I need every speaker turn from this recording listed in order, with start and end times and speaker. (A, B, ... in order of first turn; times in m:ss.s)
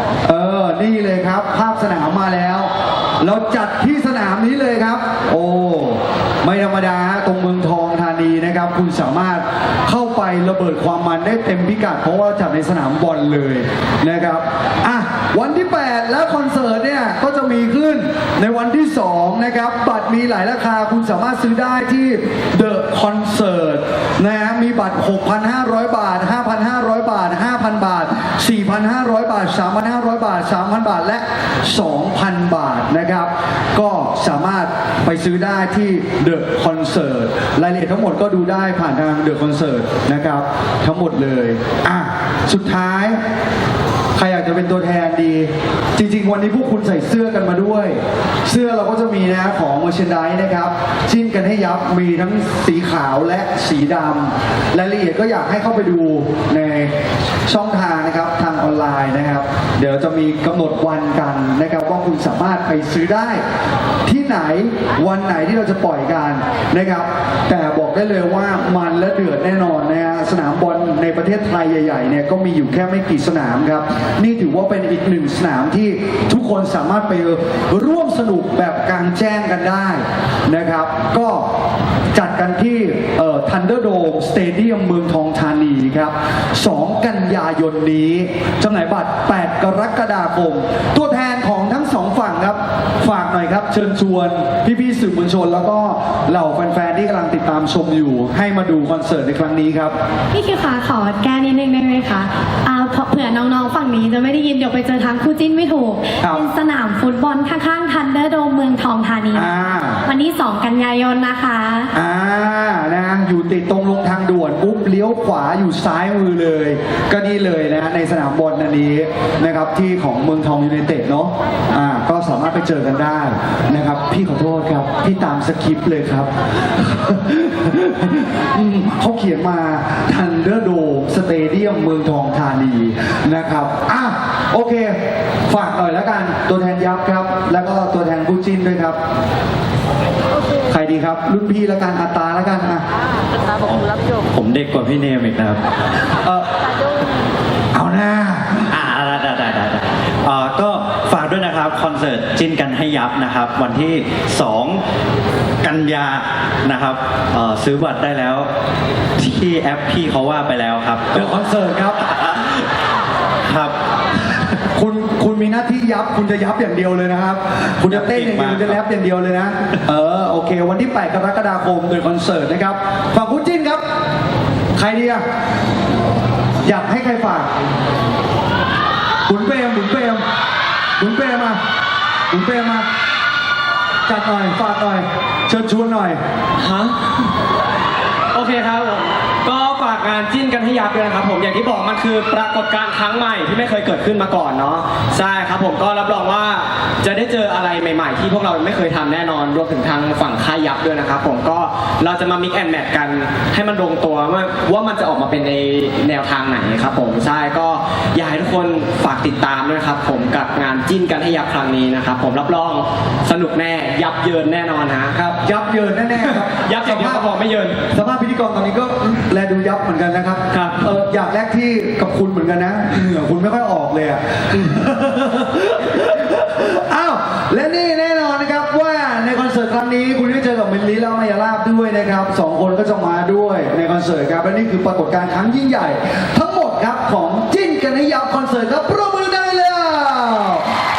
0:00.2-0:43.2 A
0:44.2-0:56.9 A
0:57.5-1:03.4 A
1:04.0-1:21.5 A
1:22.1-1:40.0 A
1:40.3-1:49.5 B
1:49.3-1:50.0 A
1:50.1-1:51.9 B
1:51.9-2:19.0 A
2:20.7-2:22.8 A
2:23.6-2:25.6 C
2:27.7-2:28.7 A
2:28.7-2:34.8 C
2:35.6-2:38.5 C
2:39.2-2:41.3 C
2:41.1-2:42.0 A
2:43.5-2:43.7 C
2:44.7-2:53.8 A
2:47.9-2:48.8 C
2:54.8-2:55.2 A
2:56.6-2:57.5 A
2:59.3-3:00.2 A
3:01.0-3:01.6 A
3:02.3-3:02.9 A
3:04.1-3:06.2 A
3:06.6-3:07.0 D
3:08.3-3:35.1 D
3:35.1-3:37.2 A
3:36.2-3:37.8 D
3:37.9-4:00.6 A
3:40.5-3:40.8 D